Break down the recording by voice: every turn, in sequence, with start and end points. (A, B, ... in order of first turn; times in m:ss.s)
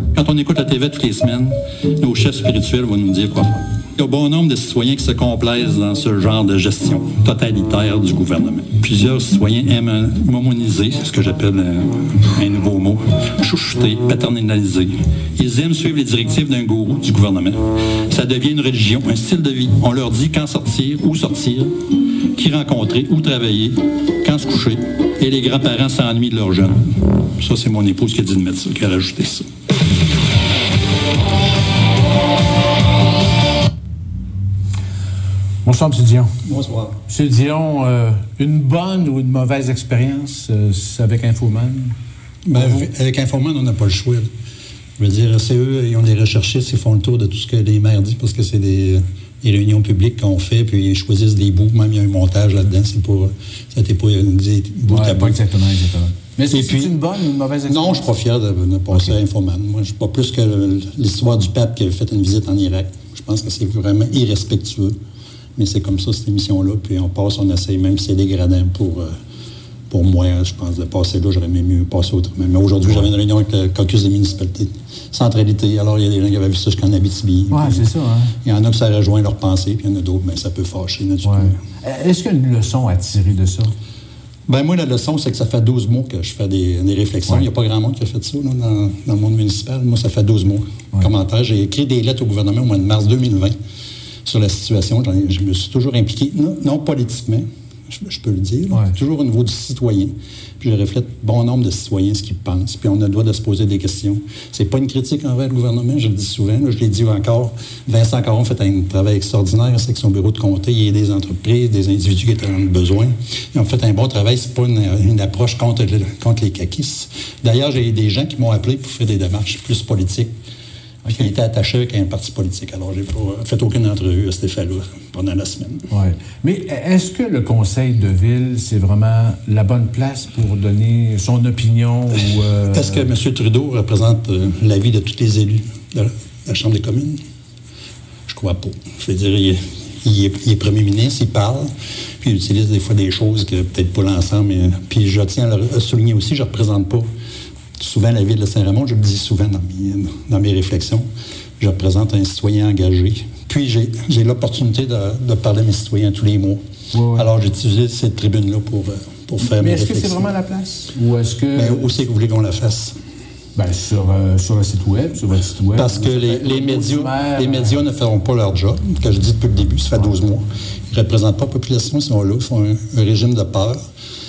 0:00.1-0:21.8 A
0:22.4-0:29.5 A
0:35.6-0:36.4 B
0:36.4-0:37.0 A
0:37.1-0:42.0 B
0:42.5-0:44.3 A
0:42.5-0:42.9 B
0:45.0-0:55.4 A
0:54.8-0:58.1 B
0:56.5-0:57.0 A
0:57.6-1:05.0 A
0:58.9-0:59.2 B
1:05.6-1:09.2 A
1:09.9-1:21.6 A
1:17.5-1:18.3 B
1:21.2-1:23.7 B
1:24.5-1:33.6 A
1:34.2-2:00.4 A
2:01.1-2:01.3 B
2:01.1-2:05.8 A
2:05.9-2:13.1 B
2:12.7-2:17.2 A
2:18.3-2:27.1 A
2:27.8-2:31.1 A
2:31.6-2:40.3 A
2:36.9-2:37.3 B
2:39.4-2:41.9 B
2:41.5-2:43.0 A
2:43.6-2:47.8 B
2:45.7-2:53.8 A